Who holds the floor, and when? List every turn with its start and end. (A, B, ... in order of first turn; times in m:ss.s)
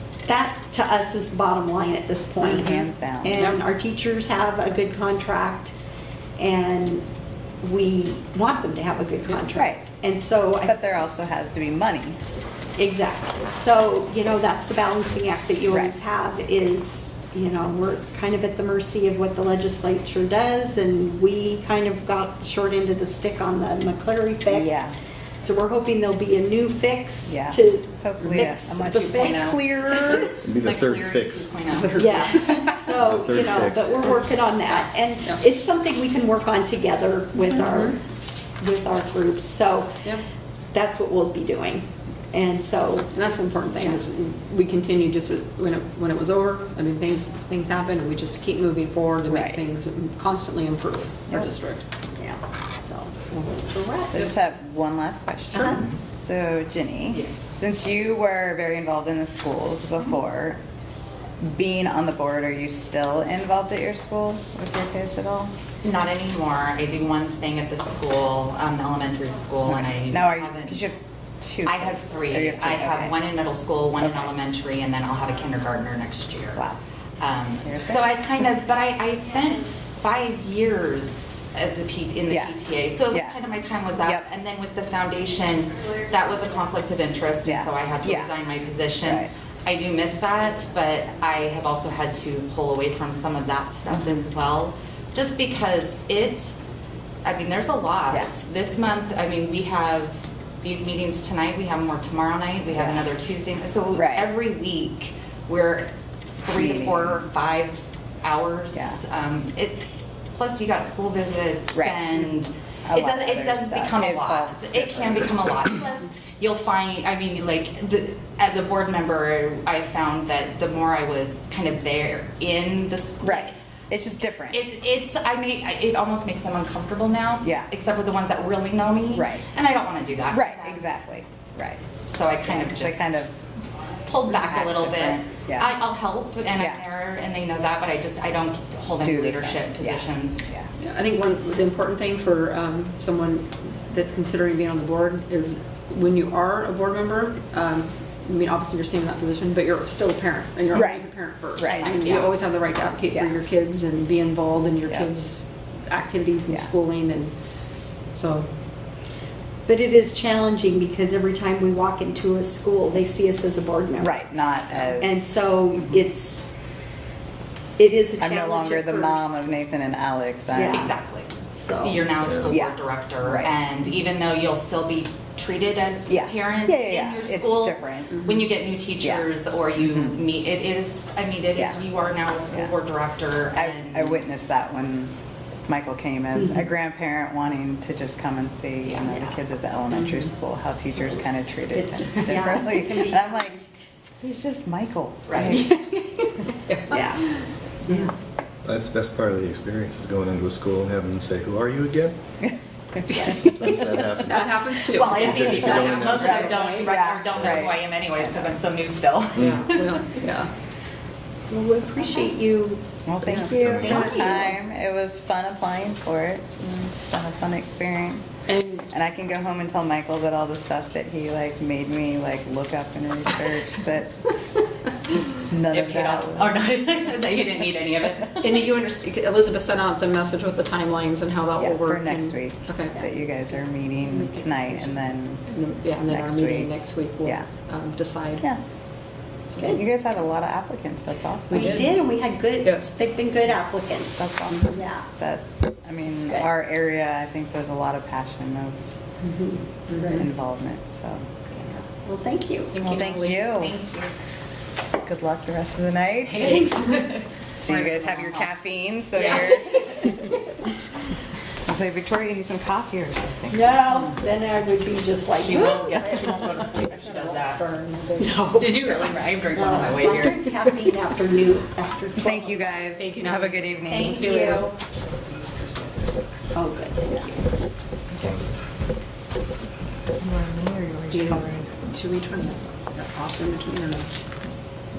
0:00.2-0:05.7 A
0:02.6-0:03.4 B
0:03.3-0:03.6 C
0:06.4-0:07.0 A
0:07.6-0:10.7 A
0:09.5-0:09.8 B
0:10.6-0:12.2 B
0:12.8-0:24.9 A
0:24.5-0:24.9 B
0:25.4-0:30.4 A
0:27.3-0:29.9 B
0:29.6-0:30.3 C
0:30.4-0:31.6 D
0:30.6-0:32.2 E
0:31.7-0:33.0 C
0:32.0-0:38.0 A
0:32.9-0:34.1 D
0:37.4-0:37.9 C
0:38.6-0:40.0 A
0:40.7-0:43.2 A
0:43.1-0:51.8 C
0:49.3-0:49.6 B
0:52.2-0:54.3 A
0:54.1-1:00.6 B
1:01.4-1:05.5 B
1:05.8-1:10.8 E
1:09.6-1:13.2 B
1:11.6-1:16.6 E
1:14.0-1:14.3 B
1:17.2-1:36.5 E
1:17.6-1:18.1 B
1:22.3-1:22.6 B
1:23.1-1:23.4 B
1:27.4-1:28.3 B
1:29.0-1:29.3 B
1:33.9-1:34.2 B
1:37.2-2:03.6 E
1:42.8-1:43.0 B
1:43.9-1:44.3 B
1:46.5-1:47.2 B
1:48.7-1:49.0 B
1:51.7-1:52.1 B
1:52.8-1:55.5 B
2:03.2-2:04.6 B
2:04.5-2:10.9 E
2:09.1-2:09.5 B
2:10.3-2:11.8 B
2:12.1-2:13.3 E
2:12.4-2:13.3 B
2:14.0-2:20.4 E
2:14.3-2:15.7 B
2:16.6-2:16.8 B
2:19.0-2:20.7 B
2:20.8-2:37.3 C
2:30.7-2:32.0 B
2:38.1-2:38.5 C
2:39.7-2:44.2 A
2:44.0-2:45.2 B
2:45.0-2:46.5 A
2:47.8-2:49.4 A
2:48.2-2:50.9 B
2:50.5-2:50.9 A
2:50.7-3:04.2 E
2:51.5-2:52.0 A
2:52.4-2:53.5 B
2:56.1-2:58.2 B
2:59.0-3:00.2 B
3:03.5-3:05.1 B
3:05.7-3:13.6 B
3:08.8-3:09.2 E
3:11.7-3:13.6 A
3:14.2-3:15.8 B
3:15.3-3:15.6 E
3:15.7-3:15.9 A
3:16.7-3:18.1 C
3:16.9-3:17.4 A
3:17.8-3:18.1 B
3:18.6-3:22.2 D
3:22.4-3:23.5 B
3:23.1-3:27.1 C
3:23.4-3:26.7 D
3:24.9-3:30.2 E
3:26.2-3:28.6 B
3:29.4-3:30.5 C
3:31.5-3:34.6 A
3:33.0-3:44.2 B
3:33.5-3:34.1 D
3:38.5-3:38.9 C
3:45.3-3:46.6 B
3:45.7-3:48.7 E
3:48.4-3:53.0 C
3:51.6-3:55.4 B
3:54.0-3:58.5 C
3:56.1-3:56.7 B
3:57.2-3:57.5 B
3:59.5-3:59.8 C
3:59.6-4:02.0 B
4:01.5-4:02.0 C
4:01.5-4:05.0 A
4:02.6-4:02.9 C
4:04.2-4:08.8 B
4:06.2-4:06.4 A
4:09.9-4:10.3 C
4:10.0-4:10.2 A
4:10.1-4:11.6 B
4:12.0-4:12.8 A
4:12.7-4:13.6 C
4:12.8-4:13.8 B
4:12.9-4:14.1 E
4:15.0-4:16.7 B
4:16.2-4:18.5 E
4:17.6-4:20.3 B
4:19.2-4:19.6 E
4:19.6-4:20.2 C
4:21.6-4:23.8 B
4:23.5-4:26.0 A
4:25.4-4:27.6 E
4:25.8-4:28.4 C
4:28.2-4:32.8 A
4:28.4-4:30.4 E
4:32.2-4:34.2 B
4:33.0-4:34.7 C
4:33.9-4:34.7 A
4:36.5-4:37.4 A
4:38.1-4:38.4 B
4:40.2-4:41.6 B
4:41.1-4:44.1 C